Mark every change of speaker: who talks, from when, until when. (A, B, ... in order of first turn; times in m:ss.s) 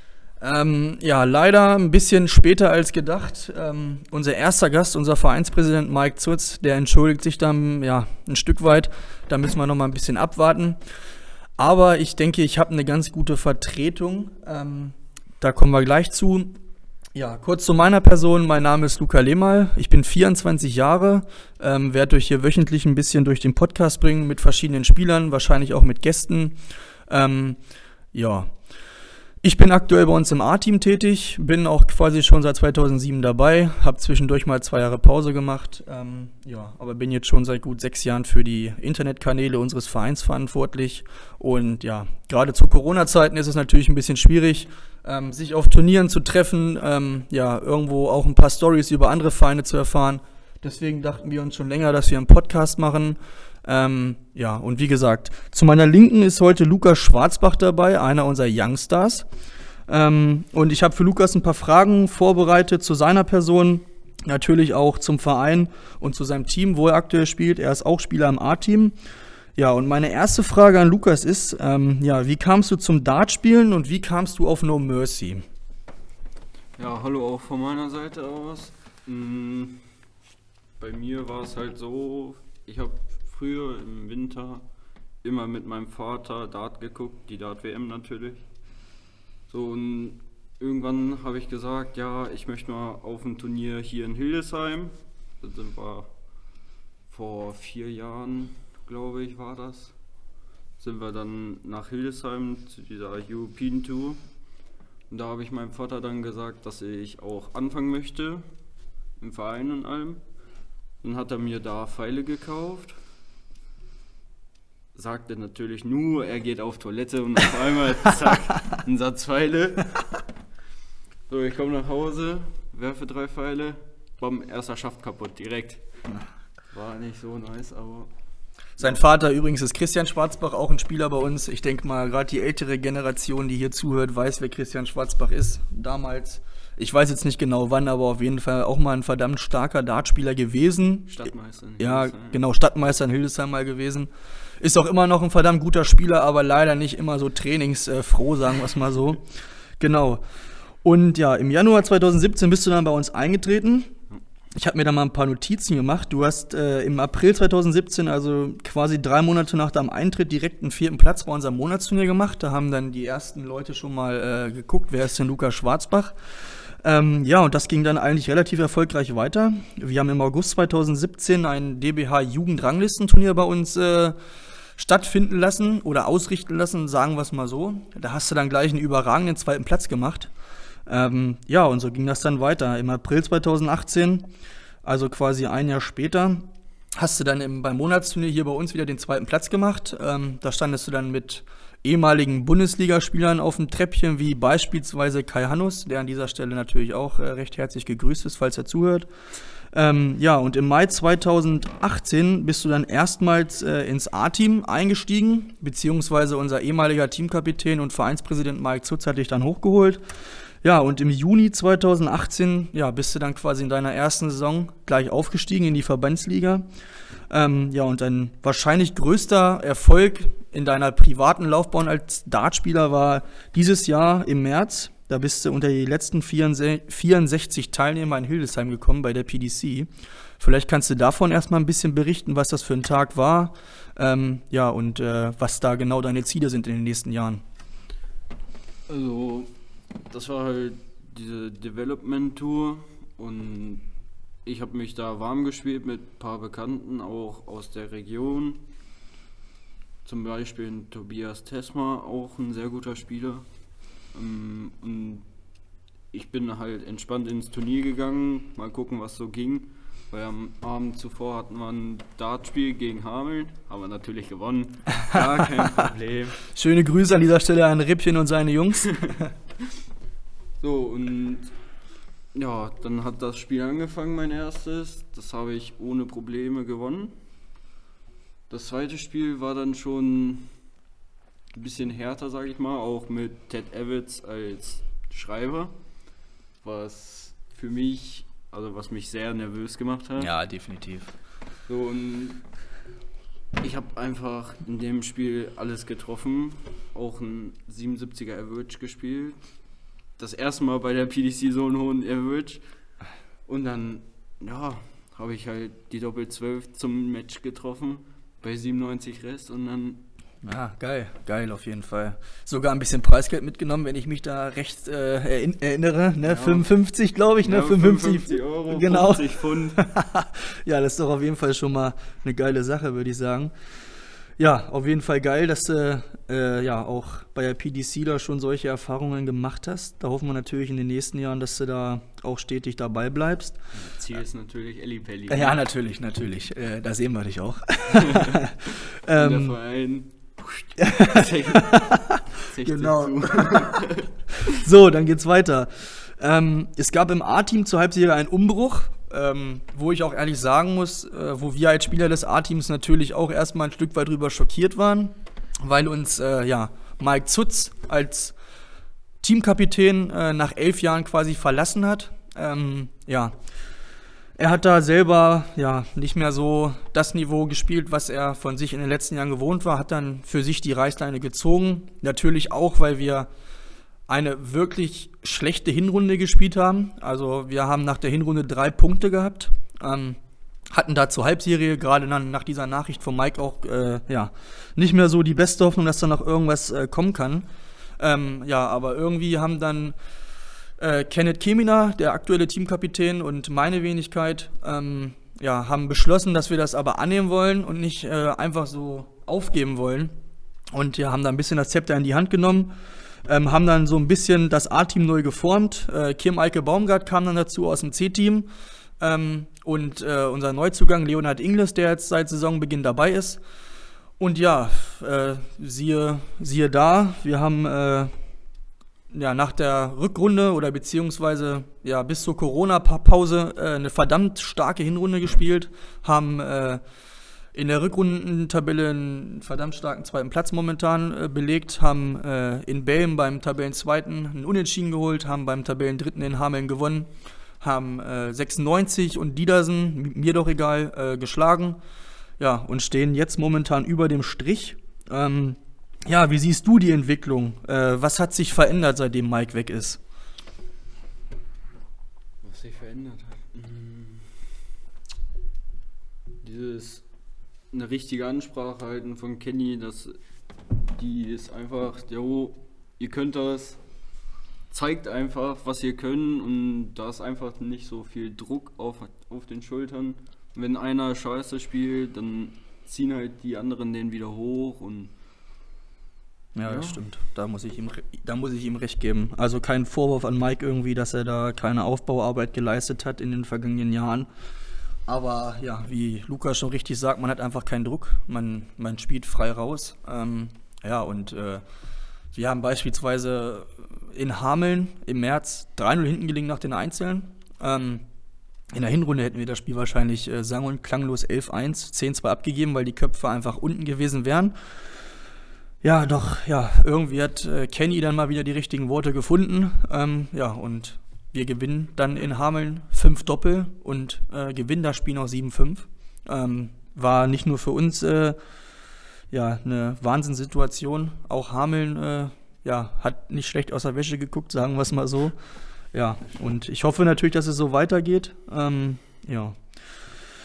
0:00.4-0:10.8 A
0:11.6-0:16.6 A
0:17.2-0:26.6 A
0:27.1-0:27.6 A
0:28.1-0:28.5 A
0:29.4-0:59.3 A
0:59.9-1:09.0 A
1:09.6-1:15.4 A
1:16.8-1:19.9 B
1:20.8-1:24.6 B
1:25.2-1:28.4 B
1:29.5-1:36.1 B
1:37.1-1:40.0 B
1:40.8-1:44.2 B
1:45.1-1:48.4 B
1:49.2-1:50.2 B
1:51.0-1:53.0 B
1:54.9-1:59.9 B
2:01.3-2:05.8 B
2:06.7-2:08.1 B
2:08.8-2:21.2 A
2:21.1-2:22.4 B
2:21.8-2:24.1 A
2:24.6-2:29.3 A
2:29.8-2:30.2 A
2:30.8-2:33.9 A
2:34.6-2:46.2 A
2:46.8-2:54.2 A
2:54.8-3:00.3 A
3:00.9-3:04.3 A
3:04.8-3:19.1 A
3:19.7-3:30.0 A
3:30.6-3:36.6 A
3:37.3-3:57.4 A
3:58.9-3:59.5 B
4:00.1-4:03.9 B
4:04.4-4:08.7 B
4:10.0-4:13.5 B
4:14.1-4:15.3 B
4:16.1-4:26.4 B
4:25.1-4:25.8 A
4:26.5-4:29.3 A
4:30.6-4:31.5 B
4:32.3-4:37.2 B
4:38.5-4:40.5 B
4:41.5-4:45.7 B
4:46.6-4:50.3 B
4:50.2-4:51.1 A
4:51.7-4:52.4 B
4:53.6-4:59.4 B
5:00.2-5:02.6 B
5:03.5-5:10.0 B
5:10.4-5:23.5 A
5:16.2-5:16.7 B
5:17.4-5:19.8 B
5:24.4-5:33.6 A
5:33.7-5:35.6 B
5:35.3-5:39.6 A
5:37.9-5:38.5 B
5:39.1-5:44.6 B
5:40.8-5:43.8 A
5:44.4-5:58.4 A
5:59.2-6:03.3 A
6:04.4-6:13.3 A
6:14.1-6:20.2 A
6:20.7-6:27.5 A
6:28.0-6:30.0 A
6:30.8-6:40.1 A
6:40.7-6:42.8 A
6:43.3-6:48.5 A
6:49.0-6:53.4 A
6:54.2-6:58.1 A
6:59.1-7:06.8 A
7:07.5-7:17.1 A
7:17.6-7:21.8 A
7:22.4-7:30.0 A
7:32.4-7:34.5 B
7:36.4-7:37.0 B
7:37.7-7:40.2 B
7:41.0-7:43.8 B
7:44.7-7:55.1 B
7:56.6-8:04.3 A
7:56.7-7:57.0 B
8:05.1-8:11.6 A
8:12.3-8:18.0 A
8:18.7-8:24.6 A
8:25.8-8:38.4 A
8:39.3-8:45.4 A
8:45.9-8:49.6 A